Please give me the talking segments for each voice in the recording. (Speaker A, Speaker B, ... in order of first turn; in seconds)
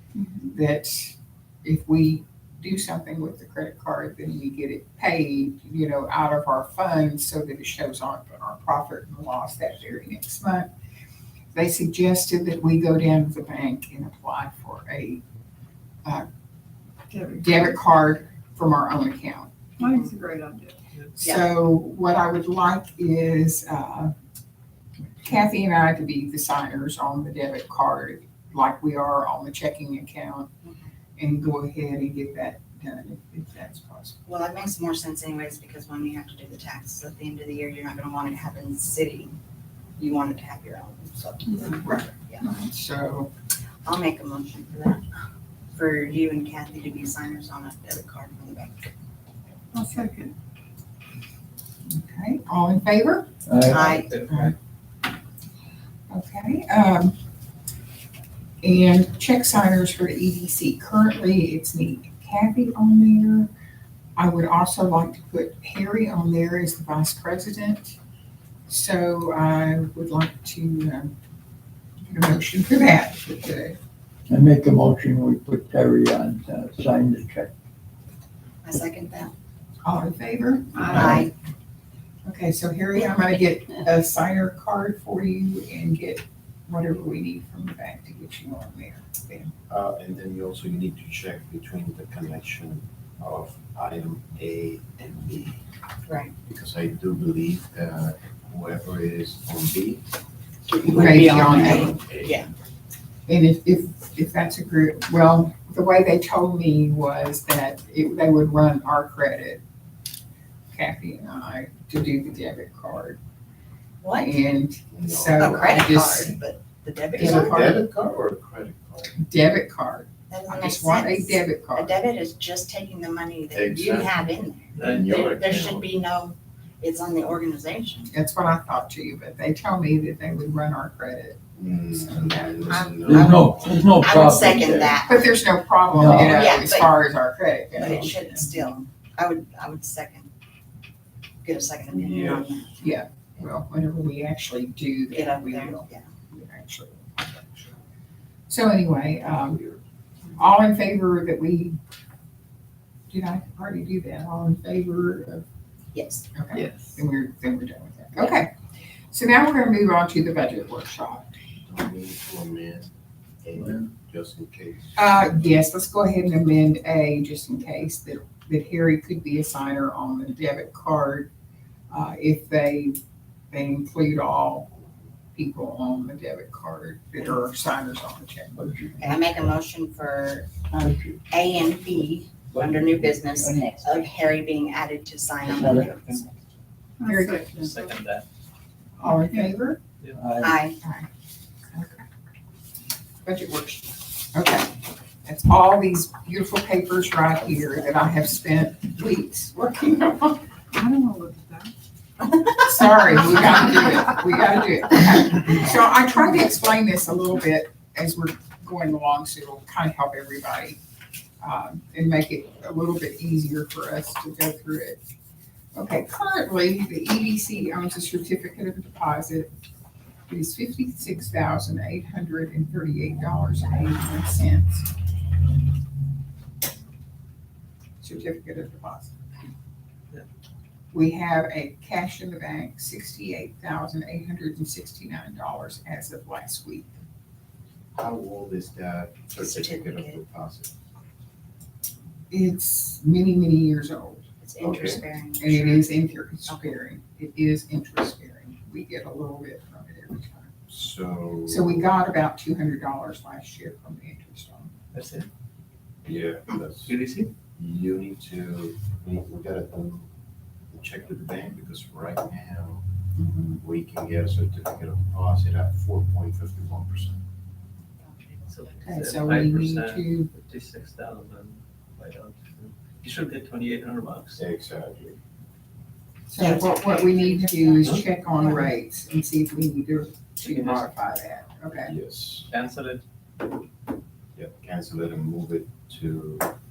Speaker A: 0.4-10.7, 11.5-15.2, 17.3-19.5, 21.2-24.1, 25.2-30.5, 31.2-34.2, 41.8-43.3, 51.9-53.3, 54.3-54.5, 56.1-57.1, 58.6-63.5, 64.2-68.0, 68.7-71.1, 72.1-73.8, 79.8-81.3, 82.2-89.5, 100.9-102.0, 103.3-109.6, 110.7-113.2, 114.2-116.4, 117.1-117.8, 119.1-121.9, 128.1-132.9, 135.0-138.6, 142.8-147.7, 148.5-149.6, 150.4-151.8, 153.1-155.4, 156.3-158.5, 159.1-161.3, 164.9-171.3, 171.9-173.0, 173.5-174.7, 175.3-178.6, 187.1-187.4, 189.0-189.8, 190.8-191.1, 191.7-192.0, 193.2-200.4, 202.5-210.8, 211.4-215.0, 215.7-219.5, 220.3-224.9, 228.0-229.3, 230.9-237.0, 242.3-244.2, 245.4-250.5, 251.4-254.7, 263.2-263.6, 268.8-270.3, 276.3-281.9
Speaker B: 17.1-17.7, 19.8-20.8, 49.7-50.3, 187.0-187.9, 189.0-189.5, 200.7-201.7
Speaker C: 19.8-20.1, 21.2-21.5, 34.2-39.4, 40.0-42.5, 43.8-45.0, 45.7-48.9, 53.6-54.1, 78.6-79.3, 80.9-81.3, 96.1-96.3, 100.7-102.5, 114.0-114.3, 115.3-117.7, 120.3-128.1, 132.7-135.2, 136.2-136.9, 137.8-140.3, 141.4-142.8, 145.1-146.0, 155.9-156.3, 179.0-180.7, 181.3-186.3, 190.4-190.8, 239.4-240.2, 244.4-246.8, 268.0-268.9, 276.4-278.7
Speaker D: 53.5-53.8, 74.3-77.5, 133.0-135.0, 135.9-136.5, 163.6-163.8, 178.5-179.4, 180.7-181.2, 182.5-183.7, 185.5-185.8, 190.1-190.6
Speaker E: 53.6-54.5, 124.7-125.2, 187.6-188.2, 254.9-255.3, 256.8-257.3, 268.5-274.4, 280.4-280.9, 282.5-283.0
Speaker F: 89.7-95.6, 96.4-100.0, 100.8-102.5, 114.9-115.8, 117.2-119.2, 123.5-125.9, 131.5-133.8, 141.9-142.5, 149.3-149.8, 161.7-165.0, 237.9-240.7, 244.6-245.0, 250.7-251.9, 256.0-256.9, 257.6-260.1, 260.7-262.8, 263.6-267.2, 274.3-275.2, 281.8-282.5, 284.3-286.5